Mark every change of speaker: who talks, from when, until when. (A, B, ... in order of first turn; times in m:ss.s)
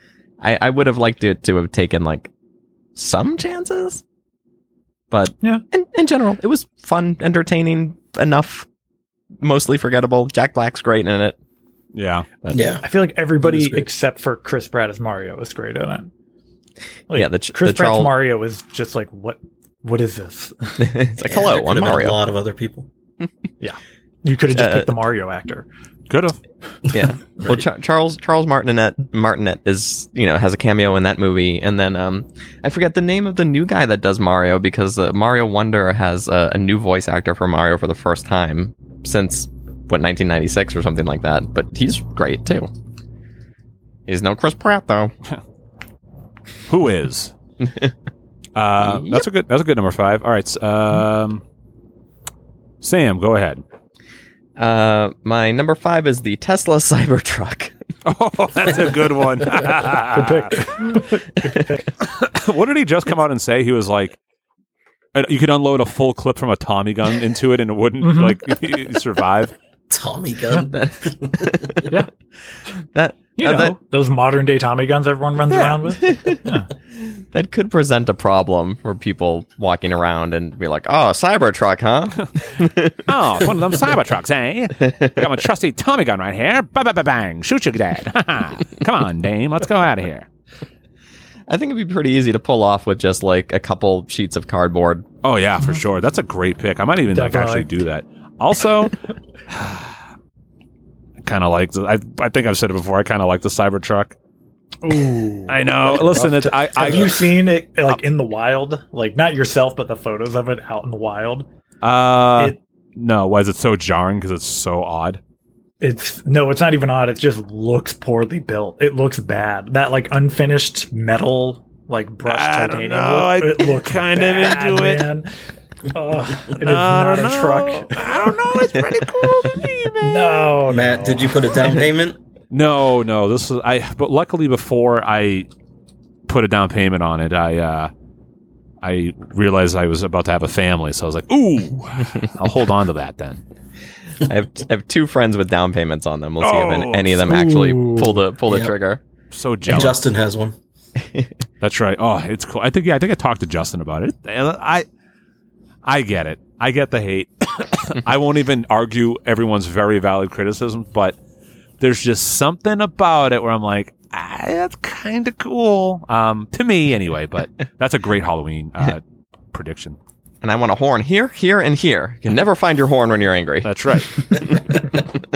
0:00.4-0:02.3 A
0:03.0-0:04.0 A
0:05.1-0:08.7 A
0:09.4-0:11.4 A
0:11.9-0:12.3 B
0:12.4-0:12.7 A
0:12.5-0:12.8 C
0:12.8-0:16.1 D
0:13.5-0:13.8 C
0:17.1-0:20.9 D
0:17.1-0:18.1 A
0:20.8-0:22.2 A
0:21.2-0:22.9 C
0:23.6-0:25.7 D
0:24.5-0:24.9 A
0:26.1-0:26.4 B
0:26.9-0:42.7 A
0:44.1-0:45.1 A
0:46.7-0:47.3 B
0:47.6-0:47.9 A
0:48.6-0:51.4 B
0:48.8-0:49.2 A
0:52.8-0:53.6 B
0:54.6-0:57.7 A
0:58.0-1:00.7 B
1:00.1-1:01.9 D
1:02.0-1:04.2 B
1:05.1-1:09.5 B
1:08.0-1:08.4 D
1:09.9-1:11.8 C
1:10.7-1:11.9 A
1:12.8-1:13.8 A
1:13.4-1:16.7 D
1:15.5-1:16.0 B
1:16.1-1:16.4 A
1:16.9-1:23.9 A
1:23.1-1:30.3 B
1:24.8-1:25.4 A
1:31.5-1:35.1 A
1:35.2-1:39.0 B
1:37.1-1:37.7 D
1:39.5-1:40.0 B
1:41.2-1:44.1 B
1:44.8-1:51.4 D
1:45.5-1:47.2 B
1:51.8-1:55.2 B
1:55.8-2:05.3 D
2:02.3-2:05.0 B
2:05.9-2:08.1 D
2:06.6-2:10.6 B
2:08.8-2:09.4 A
2:09.6-2:11.3 D
2:10.7-2:12.2 C
2:12.5-2:15.5 B
2:16.3-2:17.9 B
2:18.8-2:23.4 B
2:24.2-2:29.0 A
2:26.4-2:27.3 B
2:27.2-2:28.2 D
2:28.5-2:28.7 C
2:29.3-2:30.0 B
2:29.7-2:30.6 C
2:31.6-2:34.8 B
2:35.8-2:41.2 B
2:41.8-2:50.0 B
2:50.4-2:53.7 A
2:53.6-2:54.6 B
2:54.2-2:55.0 A